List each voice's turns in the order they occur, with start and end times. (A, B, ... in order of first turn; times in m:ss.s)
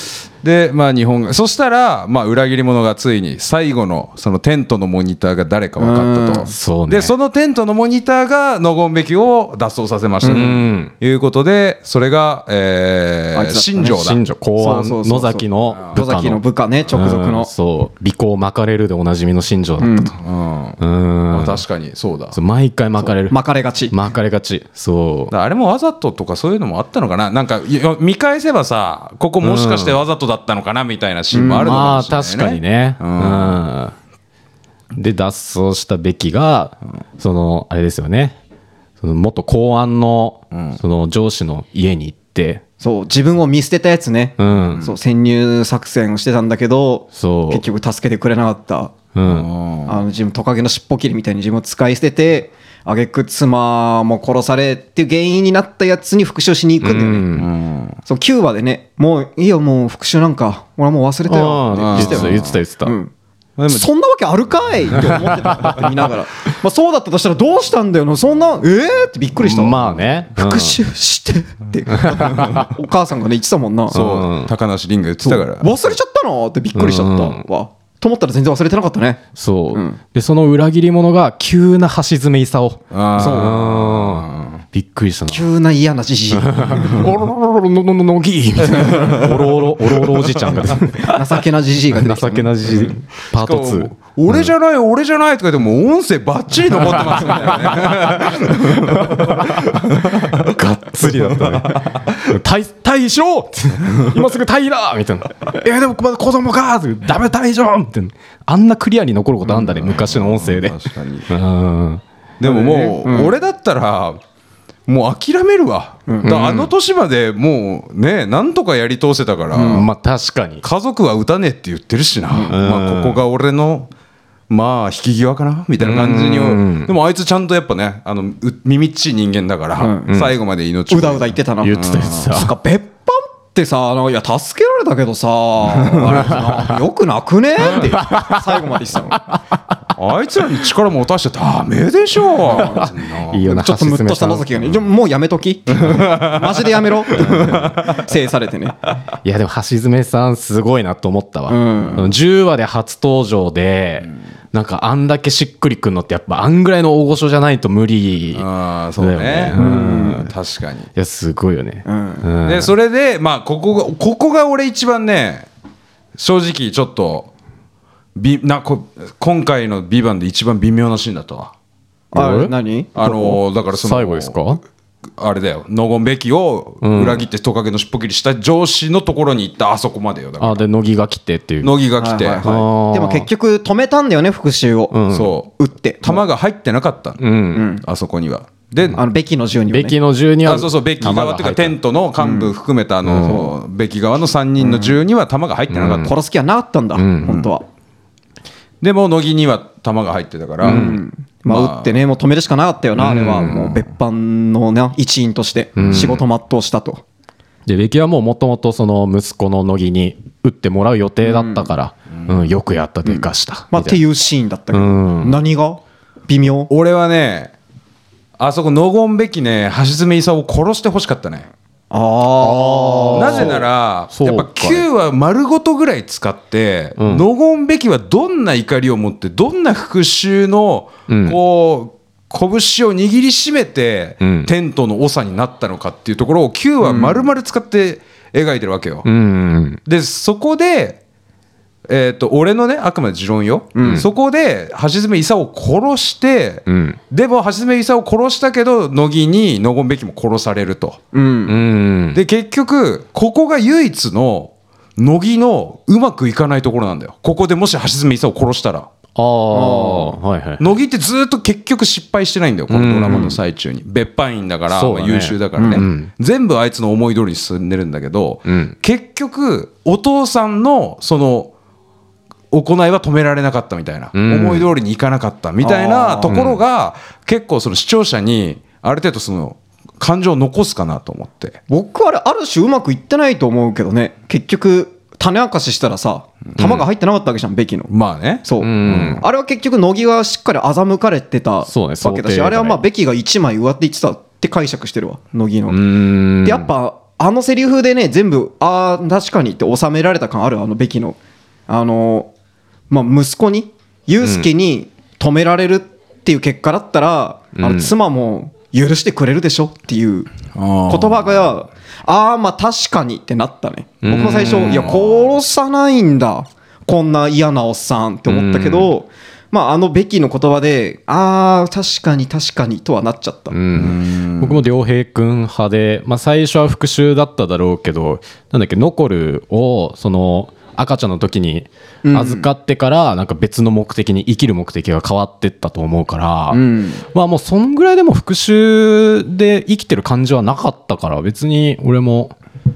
0:00.4-0:14.2 A
0:05.8-0:06.5 B
0:06.5-0:07.1 C
0:10.2-0:10.5 B
0:10.2-0:10.9 C
0:13.3-0:14.0 B
0:13.8-0:20.1 C
0:14.6-0:17.5 B
0:19.8-0:20.1 B
0:20.2-0:20.8 A
0:20.8-0:21.6 C
0:21.3-0:22.4 A
0:22.3-0:23.4 C
0:23.3-0:23.9 B
0:23.9-0:25.3 C
0:25.3-0:33.6 A
0:29.4-0:30.0 C
0:31.3-0:31.8 B
0:31.6-0:33.9 C
0:34.9-0:38.4 C
0:39.0-0:42.6 C
0:40.5-0:40.8 A
0:42.8-0:48.9 B
0:44.4-0:44.8 C
0:44.6-0:44.9 A
0:47.1-0:47.6 C
0:49.1-0:49.5 C
0:49.2-0:50.0 A
0:49.9-0:57.3 B
0:56.8-0:57.5 C
0:57.3-0:58.0 A
0:58.1-1:03.1 B
1:01.3-1:02.9 C
1:01.8-1:02.6 A
1:03.6-1:03.9 A
1:03.7-1:14.0 B
1:05.0-1:05.8 C
1:09.4-1:10.8 C
1:11.9-1:12.7 C
1:13.9-1:15.7 A
1:13.9-1:14.5 C
1:15.2-1:20.0 B
1:16.7-1:17.4 C
1:19.4-1:25.5 C
1:22.9-1:24.6 A
1:23.2-1:23.6 B
1:25.3-1:27.0 B
1:26.3-1:31.2 C
1:28.6-1:30.3 A
1:31.0-1:32.9 B
1:31.9-1:34.5 C
1:33.3-1:40.5 A
1:36.9-1:50.8 C
1:41.0-1:42.2 A
1:43.8-1:44.2 A
1:49.4-1:51.3 A
1:51.3-1:52.0 C
1:52.4-1:54.2 A
1:52.4-1:53.3 B
1:54.9-1:59.9 A
1:56.1-1:56.4 B
1:56.2-1:56.7 C
1:59.5-1:59.8 B
1:59.6-2:00.6 C
2:00.6-2:03.9 A
2:02.5-2:03.2 C
2:04.5-2:12.3 A
2:05.8-2:06.9 C
2:09.8-2:10.2 B
2:10.9-2:19.2 B
2:11.6-2:12.5 C
2:15.7-2:16.4 A
2:16.1-2:16.7 C
2:17.7-2:18.6 C
2:19.9-2:23.4 A
2:22.5-2:22.9 B
2:22.6-2:24.5 C
2:23.4-2:28.8 B
2:25.7-2:28.0 A
2:29.2-2:38.5 C
2:31.5-2:32.1 B
2:38.3-2:40.9 A
2:39.0-2:40.3 C
2:39.6-2:40.2 B
2:40.9-2:42.7 C
2:41.8-2:42.3 B
2:42.4-2:45.5 A
2:46.2-2:47.3 A
2:48.1-2:51.5 A
2:52.1-2:53.4 B
2:52.1-2:52.5 C
2:53.0-2:54.5 A
2:53.7-2:54.6 C
2:55.2-3:00.6 A
2:56.8-2:57.2 C
3:00.4-3:01.7 C
3:01.6-3:02.6 A
3:02.0-3:06.2 B
3:02.4-3:03.3 C
3:04.9-3:05.3 C
3:05.1-3:05.5 A
3:06.0-3:07.2 A
3:07.2-3:07.6 C
3:07.5-3:07.8 B
3:07.8-3:09.0 A
3:08.9-3:10.0 B
3:09.7-3:11.7 C
3:10.4-3:16.1 A
3:12.2-3:12.5 B
3:13.0-3:13.5 C
3:13.2-3:13.5 B
3:14.6-3:15.0 B
3:15.7-3:16.1 C
3:15.9-3:17.6 B
3:16.9-3:17.4 C
3:18.8-3:21.0 A
3:20.6-3:27.0 B
3:20.6-3:21.0 C
3:21.5-3:22.0 A
3:23.0-3:23.8 C
3:25.8-3:26.2 C
3:25.8-3:26.1 A
3:27.7-3:34.0 C
3:31.2-3:31.7 B
3:33.0-3:36.7 B
3:34.7-3:35.4 C
3:36.7-3:37.5 A
3:38.4-3:41.5 A
3:41.9-3:43.6 B
3:42.4-3:44.8 C
3:43.1-3:59.0 A
3:47.0-3:47.2 C
3:51.1-3:51.4 C
3:54.2-3:54.5 C
3:56.8-3:57.3 B
3:59.0-3:59.8 C
3:59.8-4:01.0 A
4:01.9-4:11.0 A
4:03.7-4:04.0 B
4:06.7-4:07.0 C
4:11.1-4:11.6 B
4:11.4-4:12.2 C
4:12.1-4:18.9 A
4:19.2-4:20.7 C
4:19.5-4:20.2 B
4:20.6-4:31.5 A
4:22.7-4:23.3 C
4:23.1-4:23.4 B
4:24.7-4:26.1 C
4:25.6-4:25.8 B
4:28.4-4:28.7 C
4:32.5-4:41.6 A
4:34.1-4:34.7 C
4:35.6-4:36.4 B
4:36.3-4:36.6 C
4:41.7-4:47.9 B
4:46.6-4:46.8 A
4:47.9-4:49.2 A
4:48.4-5:01.2 B
4:48.6-4:49.2 C
4:51.7-4:52.8 C
4:55.7-4:56.7 C
5:01.7-5:02.3 B
5:02.9-5:10.3 B
5:04.2-5:04.5 C
5:07.6-5:07.9 C
5:10.5-5:11.5 A
5:10.9-5:23.6 B
5:14.0-5:14.9 C
5:14.6-5:15.3 A
5:18.3-5:18.9 C
5:23.5-5:36.6 C
5:23.7-5:24.6 A
5:32.0-5:32.5 B
5:36.5-5:37.0 B
5:37.1-5:42.3 C